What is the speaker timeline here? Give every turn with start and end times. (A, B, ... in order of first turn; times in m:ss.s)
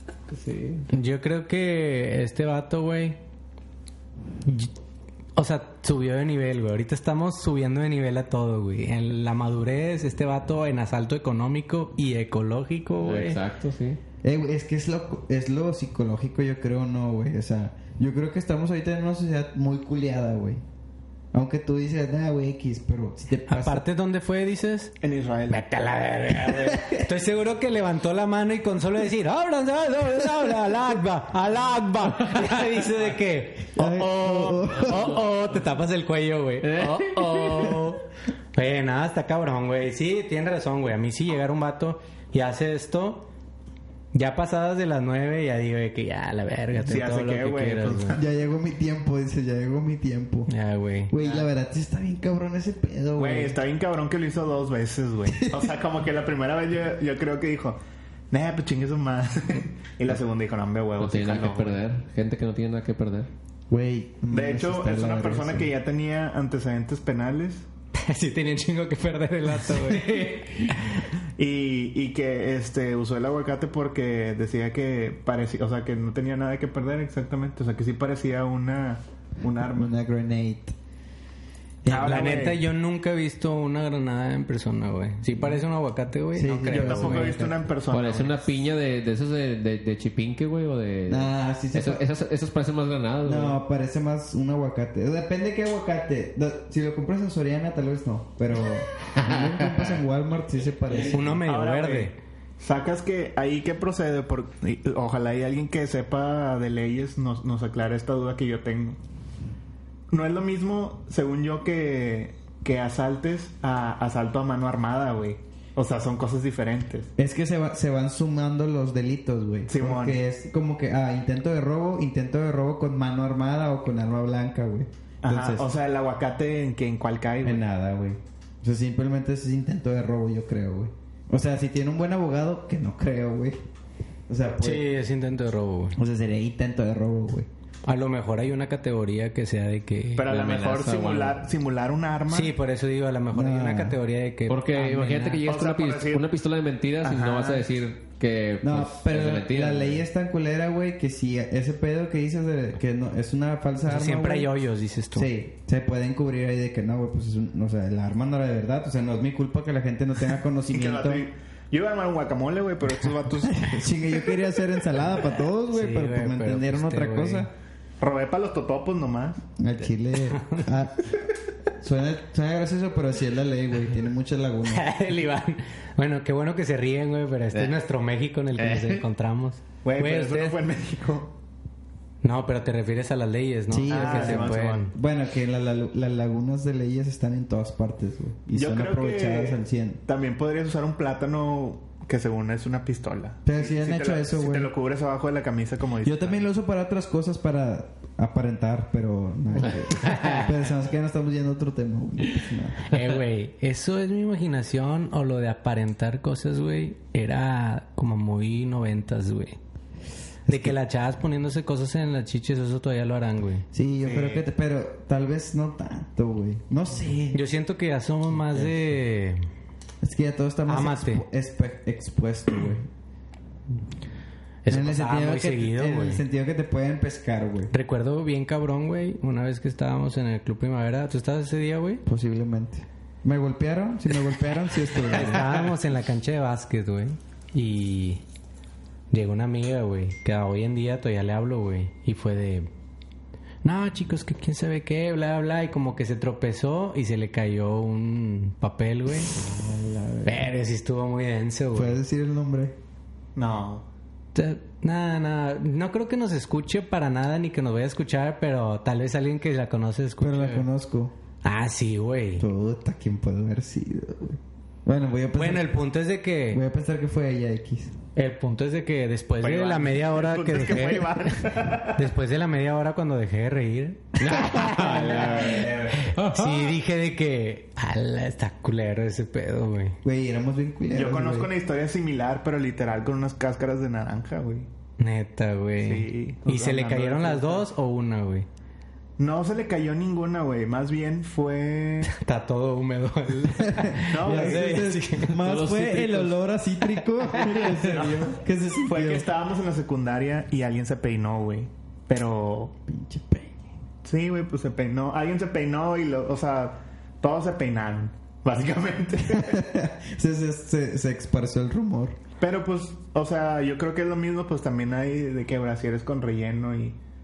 0:00.3-0:00.9 A
0:00.9-0:03.2 B
0:04.4-0:04.7 B
0:05.4-0:13.4 B
0:13.0-0:14.0 A
0:14.2-0:20.6 C
0:21.3-0:23.8 C
0:23.5-0:24.9 B
0:25.0-0:25.6 D
0:25.5-0:38.0 B
0:26.4-0:27.0 C
0:33.8-0:35.2 C
0:36.6-0:37.8 A
0:38.5-0:43.3 B
0:44.1-0:48.2 B
0:46.8-0:48.2 D
0:48.1-0:50.5 C
0:50.5-0:51.1 B
0:51.1-0:53.6 C
0:53.2-0:57.8 D
0:55.3-0:55.7 C
0:58.3-1:01.8 D
1:01.0-1:03.3 A
1:03.7-1:05.7 C
1:04.3-1:07.6 D
1:07.9-1:10.9 B
1:11.4-1:19.9 D
1:19.7-1:20.7 C
1:21.8-1:22.5 C
1:21.8-1:22.6 D
1:21.9-1:27.3 B
1:26.3-1:27.6 C
1:26.7-1:28.4 D
1:27.9-1:33.6 A
1:31.1-1:32.0 C
1:33.2-1:41.4 C
1:39.1-1:40.0 A
1:41.1-1:42.2 B
1:41.4-1:49.0 D
1:50.1-1:57.1 D
1:57.2-2:05.7 C
1:59.7-2:00.2 D
2:05.2-2:07.6 D
2:07.4-2:13.6 C
2:14.3-2:14.8 C
2:14.6-2:16.0 B
2:16.0-2:17.5 C
2:17.8-2:20.3 B
2:20.2-2:22.5 D
2:20.2-2:21.4 A
2:22.3-2:25.4 B
2:23.3-2:24.0 C
2:24.5-2:30.0 A
2:25.4-2:26.2 D
2:27.0-2:27.6 D
2:28.6-2:34.5 C
2:33.9-2:35.3 B
2:35.1-2:41.3 C
2:40.7-2:44.0 D
2:43.4-2:47.5 C
2:45.7-2:47.5 B
2:48.0-2:49.4 D
2:49.6-2:51.2 C
2:50.4-2:50.6 B
2:51.8-2:54.9 C
2:54.6-3:00.6 B
2:58.6-2:59.0 A
2:59.8-3:01.3 D
3:02.2-3:04.9 B
3:03.7-3:10.0 C
3:03.9-3:04.9 D
3:08.5-3:16.5 D
3:13.4-3:14.7 C
3:16.0-3:22.8 C
3:19.6-3:20.5 A
3:22.9-3:29.6 B
3:30.5-3:30.8 C
3:30.5-3:33.6 B
3:33.7-3:37.4 C
3:34.0-3:34.4 D
3:37.3-3:39.4 B
3:38.5-3:38.7 C
3:40.0-3:42.9 C
3:40.7-3:41.2 B
3:44.6-3:46.2 B
3:44.7-3:47.7 C
3:47.7-3:52.0 B
3:52.0-3:55.7 C
3:55.0-3:58.2 B
3:59.1-4:02.7 B
4:03.6-4:09.3 B
4:09.3-4:10.4 C
4:10.2-4:12.0 B
4:11.7-4:12.7 C
4:13.3-4:13.8 D
4:14.3-4:20.6 B
4:20.2-4:21.1 C
4:21.4-4:22.4 B
4:22.4-4:25.8 C
4:25.3-4:26.6 B
4:26.5-4:27.9 C
4:28.1-4:40.0 B
4:29.4-4:32.1 D
4:34.2-4:36.8 A
4:34.6-4:36.1 C
4:40.0-4:41.5 C
4:40.9-4:44.7 D
4:45.0-4:48.5 B
4:45.8-4:47.7 D
4:49.2-4:52.1 D
4:52.1-4:55.4 B
4:53.6-4:59.3 C
4:54.1-4:54.8 D
4:55.3-4:56.4 A
4:57.8-5:02.7 D
5:02.9-5:03.6 C
5:04.0-5:09.6 D
5:09.3-5:12.2 C
5:12.4-5:17.0 D